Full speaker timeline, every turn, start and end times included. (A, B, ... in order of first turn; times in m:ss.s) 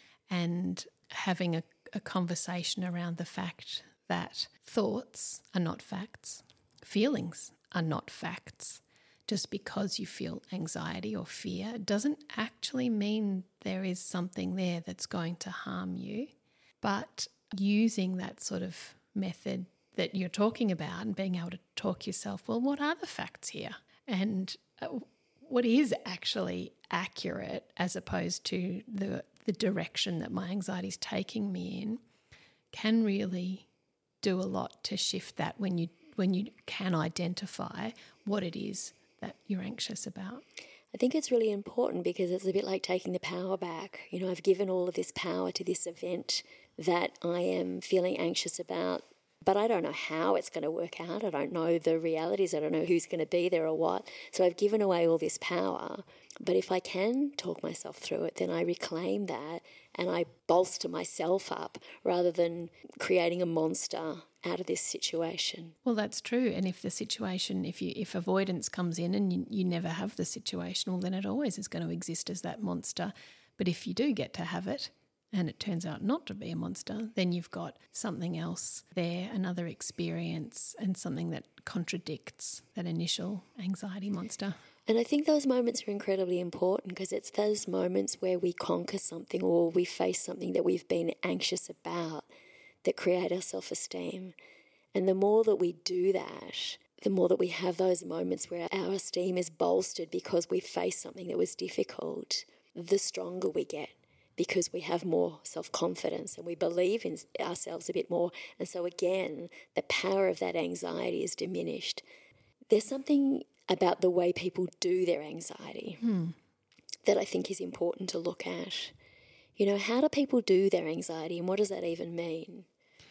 0:00.3-0:32.0 A
0:32.7-0:33.7 A
0:34.2-0:40.4 A
0:40.9-1:05.8 B
1:05.8-1:24.6 A
1:24.9-1:32.3 B
1:32.8-1:34.3 B
1:34.9-1:52.0 B
1:52.7-1:56.0 B
1:56.0-1:56.4 A
1:57.0-1:58.9 B
1:59.6-2:02.7 B